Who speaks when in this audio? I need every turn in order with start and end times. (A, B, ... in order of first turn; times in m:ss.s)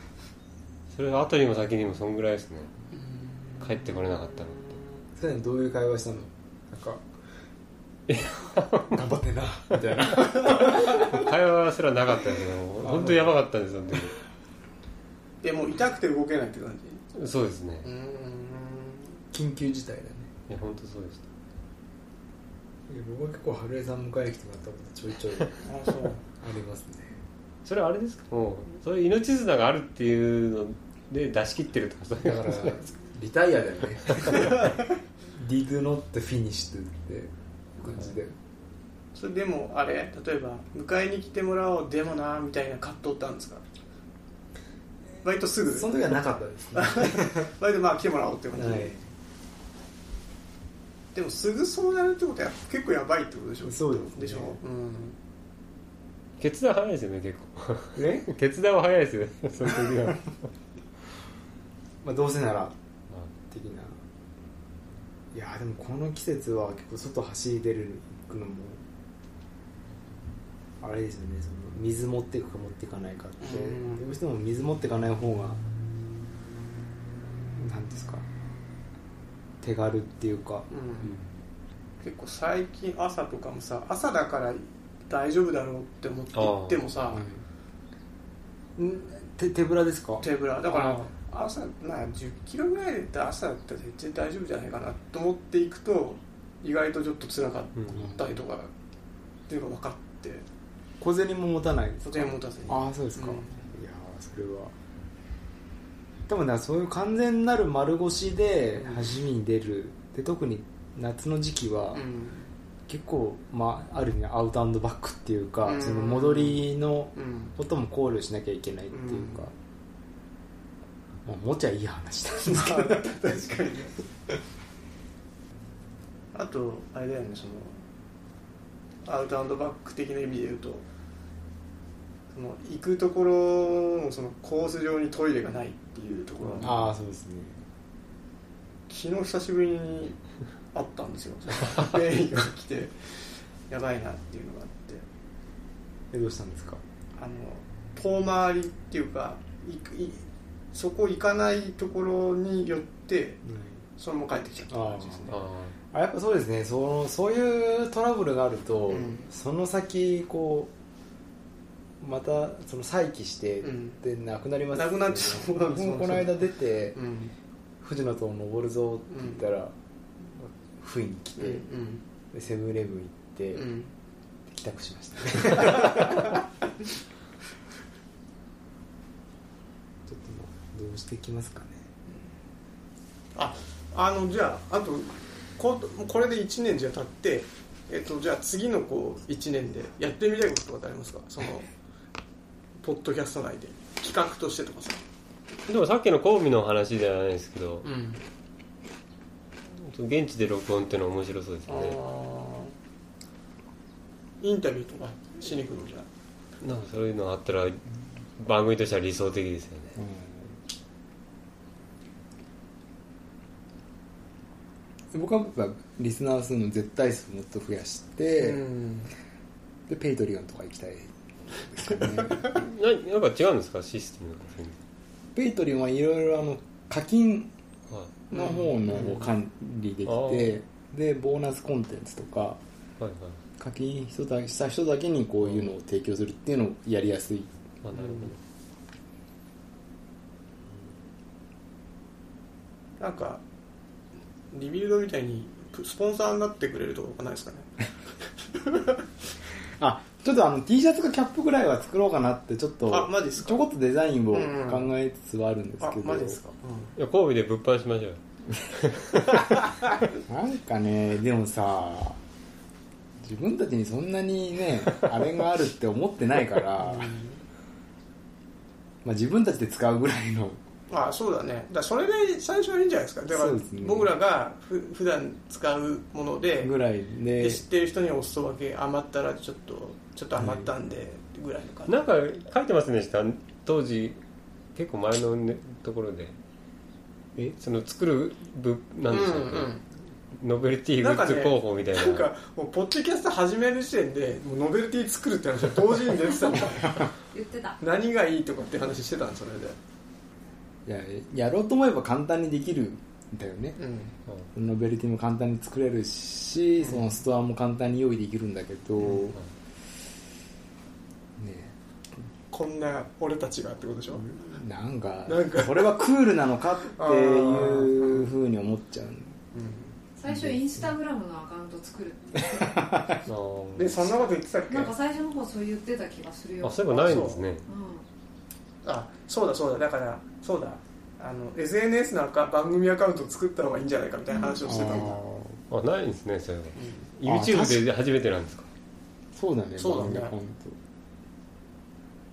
0:00.9-0:02.7 A
0:03.0-0:04.0 B
0:03.6-0:04.8 A
0:05.2-0:07.0 C
0:08.1-0:09.0 A
0:08.9-0:11.3 C
0:10.1-0:14.2 A
0:12.8-0:13.3 C
0:15.4-0:17.0 B
0:17.1-0:17.9 A
0:17.8-0:19.2 B
0:19.3-0:20.3 C
0:20.5-0:21.2 A
0:22.9-0:25.6 C
0:25.6-0:26.2 B
0:26.4-0:27.2 C
0:27.6-0:32.8 A
0:32.2-0:34.5 C
0:34.1-0:34.5 A
0:35.4-0:38.3 C
0:39.1-0:43.6 B
0:45.2-0:46.1 B
0:45.7-0:47.5 C
0:46.7-0:48.9 B
0:48.5-0:49.0 C
0:51.1-0:55.2 B
0:53.6-0:54.6 C
0:56.4-1:00.4 A
0:57.9-0:58.3 C
1:02.0-1:02.8 C
1:03.5-1:04.0 C
1:05.3-1:08.8 C
1:10.8-1:15.6 C
1:13.4-1:14.0 B
1:17.5-1:18.3 C
1:19.6-1:20.7 C
1:20.7-1:21.1 B
1:22.0-1:27.2 B
1:26.3-1:26.8 A
1:27.1-1:27.4 C
1:28.8-1:31.0 C
1:30.2-1:38.7 B
1:37.9-1:38.2 C
1:39.5-1:40.4 B
1:41.0-1:44.7 C
1:42.0-1:43.7 B
1:46.3-1:52.0 C
1:48.8-1:49.1 B
1:51.9-1:52.5 B
1:52.9-1:59.5 C
1:55.6-1:56.6 B
1:57.1-1:57.5 B
1:58.9-1:59.5 B
2:01.2-2:03.1 C
2:02.4-2:03.9 B
2:06.3-2:07.8 B
2:09.0-2:10.8 B
2:12.3-2:16.7 B
2:16.6-2:17.6 C
2:18.9-2:20.2 B
2:20.7-2:23.1 B
2:23.7-2:25.0 B
2:26.1-2:26.8 C
2:27.2-2:33.4 B
2:33.4-2:33.8 C
2:34.0-2:35.3 B
2:34.7-2:35.3 C
2:35.3-2:35.7 A
2:35.9-2:40.7 C
2:38.9-2:39.2 B
2:42.0-2:47.0 C
2:43.6-2:44.0 B
2:44.7-2:46.4 B
2:46.9-2:47.3 B
2:47.8-2:49.7 C
2:49.1-2:49.4 B
2:50.3-2:51.6 C
2:51.4-2:52.0 B
2:52.3-2:53.6 C
2:53.5-2:53.9 B
2:54.5-2:56.4 C
3:00.1-3:01.8 C
3:03.3-3:11.7 B
3:12.8-3:15.0 B
3:15.7-3:17.9 A
3:17.8-3:18.2 B
3:19.8-3:22.0 A
3:21.7-3:22.7 B
3:24.4-3:26.1 B
3:26.6-3:27.8 A
3:28.4-3:29.9 A
3:30.0-3:30.5 C
3:35.1-3:38.6 C
3:38.4-3:39.1 B
3:39.9-3:42.5 C
3:42.4-3:44.8 A
3:45.3-3:47.5 C
3:48.3-3:49.3 B
3:48.3-3:52.6 C
3:50.0-3:50.6 A
3:53.0-3:53.4 A
3:53.6-3:57.5 C
3:57.8-3:58.4 A
3:57.9-3:58.3 B
4:03.0-4:03.4 B
4:04.5-4:07.7 B
4:08.6-4:08.9 B
4:09.8-4:16.4 C
4:12.9-4:13.6 B
4:14.3-4:14.9 B
4:15.8-4:16.9 B
4:17.0-4:19.4 A
4:20.2-4:22.2 C
4:23.2-4:27.2 C
4:26.8-4:27.4 B
4:29.0-4:30.6 C
4:30.9-4:36.7 B
4:33.3-4:34.1 C
4:36.6-4:37.6 C
4:37.4-4:42.1 B
4:40.4-4:40.7 C
4:41.9-4:44.2 A
4:44.7-4:46.4 A
4:47.6-4:49.8 A
4:49.1-4:49.8 B
4:50.4-4:52.3 A
4:51.0-4:57.1 B
4:57.3-4:57.8 D
4:57.8-4:59.8 B
5:00.8-5:03.8 C
5:03.8-5:04.1 B
5:04.5-5:09.4 C
5:06.8-5:07.1 B
5:09.0-5:09.3 B
5:11.4-5:11.7 C
5:12.5-5:14.3 B
5:14.1-5:19.4 C
5:15.3-5:15.9 B
5:16.9-5:18.3 B
5:19.5-5:20.0 B
5:20.2-5:23.1 D
5:20.2-5:20.6 C
5:22.4-5:23.2 C
5:23.2-5:24.1 A
5:23.8-5:24.9 B
5:24.7-5:28.0 D
5:26.6-5:27.6 A
5:26.9-5:27.4 B
5:28.8-5:35.2 B
5:34.6-5:35.6 C
5:35.7-5:38.7 A
5:36.8-5:37.1 B
5:37.2-5:37.8 C
5:39.3-5:40.8 C
5:39.8-5:40.3 B